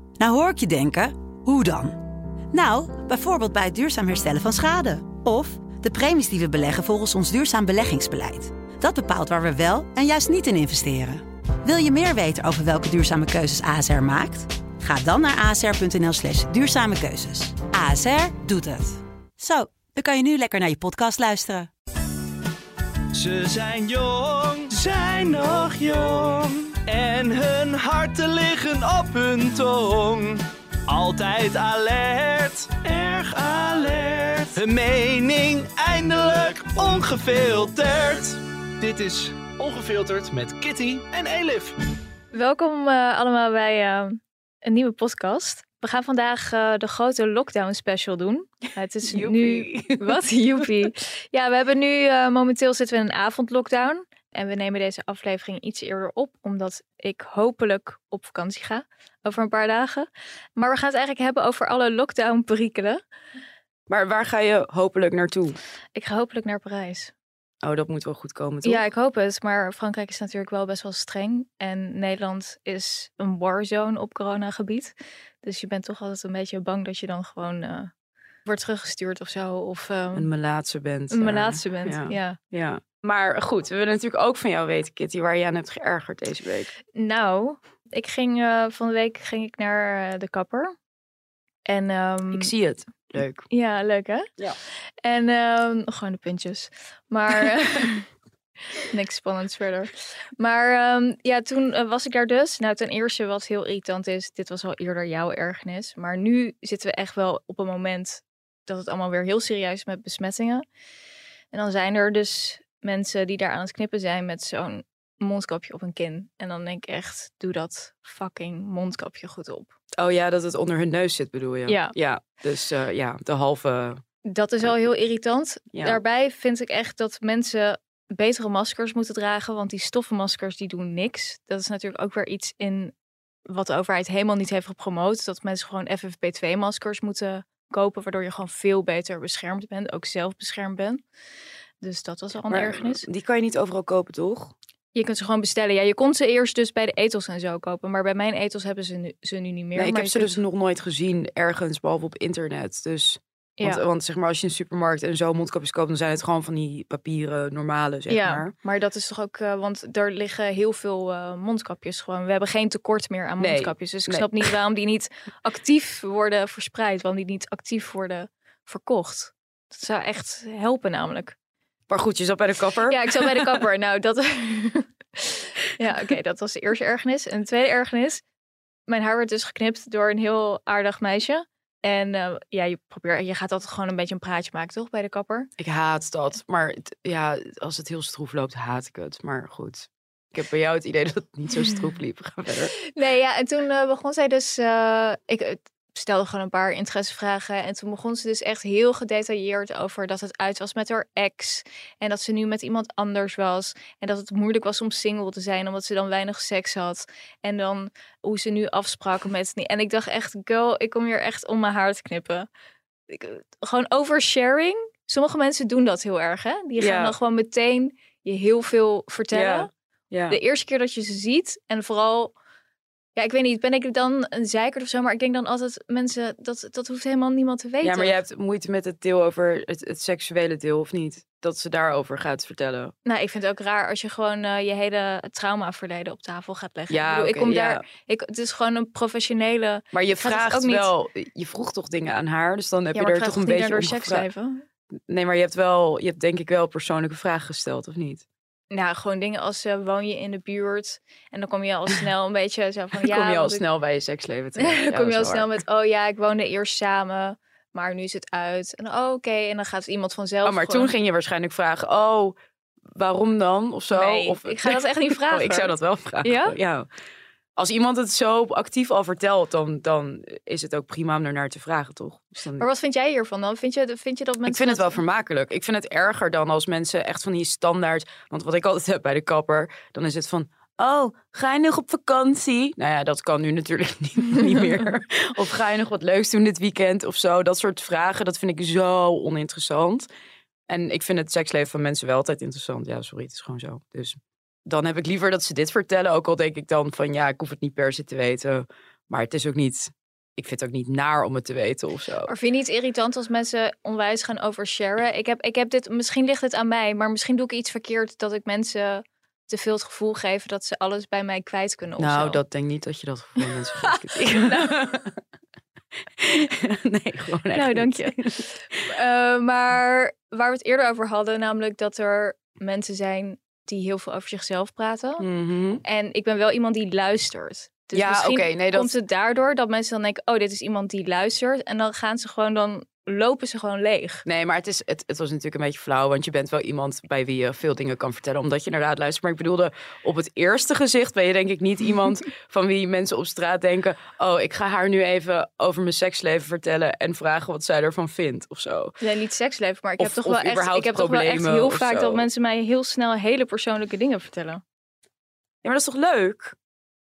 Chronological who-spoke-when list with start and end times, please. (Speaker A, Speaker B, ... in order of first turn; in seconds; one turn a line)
Speaker A: 0.2-2.0
Speaker A: 2.5-21.7
Speaker B: 23.1-41.8
Speaker C: 42.3-63.0
Speaker D: 49.1-50.2
Speaker D: 63.9-65.6
Speaker C: 66.0-67.1
Speaker D: 67.6-68.8
Speaker C: 68.6-77.9
Speaker C: 78.5-80.3
Speaker D: 80.1-86.7
Speaker C: 81.1-82.4
Speaker C: 86.9-90.7
Speaker C: 91.7-92.5
Speaker D: 92.3-93.5
Speaker C: 93.5-94.3
Speaker C: 95.0-98.1
Speaker C: 98.8-110.6
Speaker C: 111.5-119.7
Speaker D: 120.0-124.0
Speaker C: 121.7-122.0
Speaker C: 124.2-132.9
Speaker D: 125.7-126.0
Speaker C: 133.5-141.0
Speaker C: 141.8-143.1
Speaker D: 142.5-144.5
Speaker C: 144.9-150.4
Speaker D: 149.8-158.5
Speaker C: 158.1-171.4
Speaker D: 163.4-164.5
Speaker D: 171.9-173.6
Speaker C: 172.9-178.2
Speaker C: 178.9-185.5
Speaker D: 185.6-192.7
Speaker C: 192.9-212.5
Speaker C: 213.1-219.7
Speaker D: 216.8-217.2
Speaker D: 219.3-220.4
Speaker C: 220.3-222.3
Speaker C: 223.2-228.2
Speaker D: 227.8-232.9
Speaker C: 233.1-240.9
Speaker D: 236.9-237.8
Speaker D: 239.9-244.3
Speaker C: 242.9-244.6
Speaker D: 245.1-248.2
Speaker C: 248.7-253.6
Speaker D: 253.0-255.5
Speaker C: 254.6-260.9
Speaker D: 260.4-262.4
Speaker D: 262.9-266.9
Speaker C: 263.9-266.6
Speaker D: 267.6-272.7
Speaker C: 272.6-275.0
Speaker D: 274.5-290.1
Speaker D: 290.7-302.3
Speaker C: 302.3-312.4
Speaker D: 312.0-315.2
Speaker C: 314.2-314.7
Speaker D: 316.2-318.9
Speaker C: 317.5-325.3
Speaker D: 325.2-325.8
Speaker C: 325.8-334.2
Speaker D: 327.9-328.9
Speaker D: 334.2-348.9
Speaker C: 349.0-354.6
Speaker D: 350.0-352.3
Speaker D: 355.6-356.6